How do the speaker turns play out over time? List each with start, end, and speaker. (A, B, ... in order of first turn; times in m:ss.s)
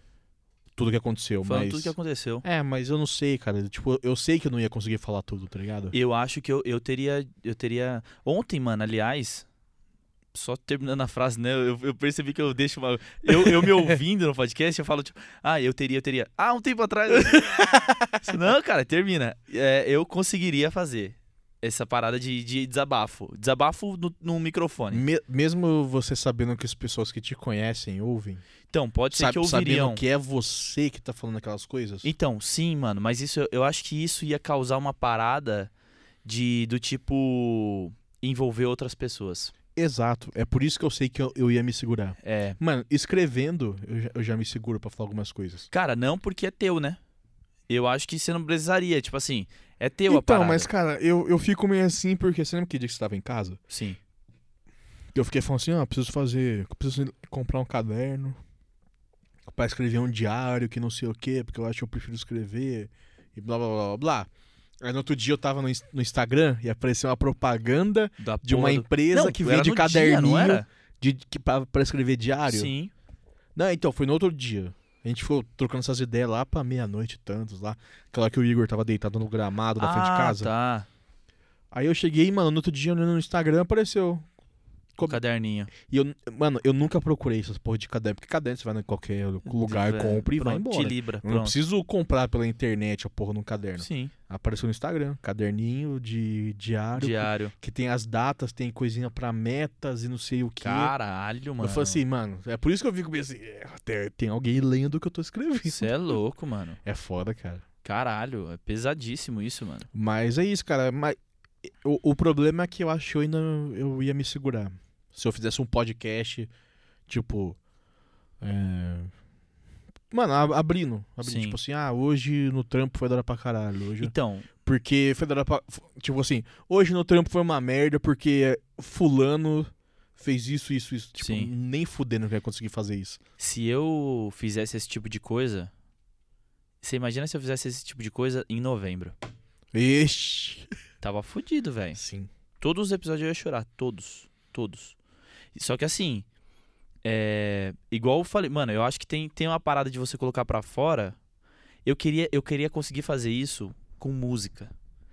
0:00.8-0:05.9 A
0:01.4-0:02.4 B
0:05.9-0:09.4 B
0:10.3-0:25.0 B
0:13.4-0:13.8 A
0:17.3-0:17.8 A
0:24.9-0:28.4 A
0:28.7-0:30.0 B
0:29.1-0:32.1 A
0:32.0-0:35.7 B
0:36.2-0:39.5 B
0:39.8-0:45.7 A
0:42.2-0:42.6 B
0:45.7-0:47.0 B
0:47.7-0:50.7 B
0:50.1-0:53.6 A
0:53.7-0:54.0 B
0:55.1-0:58.4 A
0:59.5-1:04.3 A
1:04.8-1:12.7 A
1:08.2-1:10.6 B
1:12.5-1:12.9 B
1:13.5-1:20.5 A
1:19.8-1:20.9 B
1:21.7-1:24.3 A
1:25.0-1:25.7 B
1:25.8-1:40.9 A
1:29.4-1:31.5 B
1:33.8-1:34.1 B
1:37.0-1:37.5 B
1:40.6-1:42.0 B
1:41.6-1:45.9 A
1:45.6-1:46.8 B
1:46.8-1:47.6 A
1:47.8-1:49.9 B
1:49.9-1:56.5 A
1:57.1-1:57.6 A
1:58.4-1:59.1 A
2:00.1-2:13.2 A
2:01.2-2:01.6 B
2:04.0-2:04.5 B
2:11.2-2:11.5 B
2:13.4-2:15.7 B
2:16.8-2:19.1 B
2:19.7-2:20.7 A
2:21.0-2:22.0 B
2:21.9-2:22.3 A
2:22.6-2:25.0 B
2:25.5-2:26.2 B
2:27.0-2:31.2 B
2:31.8-2:34.7 B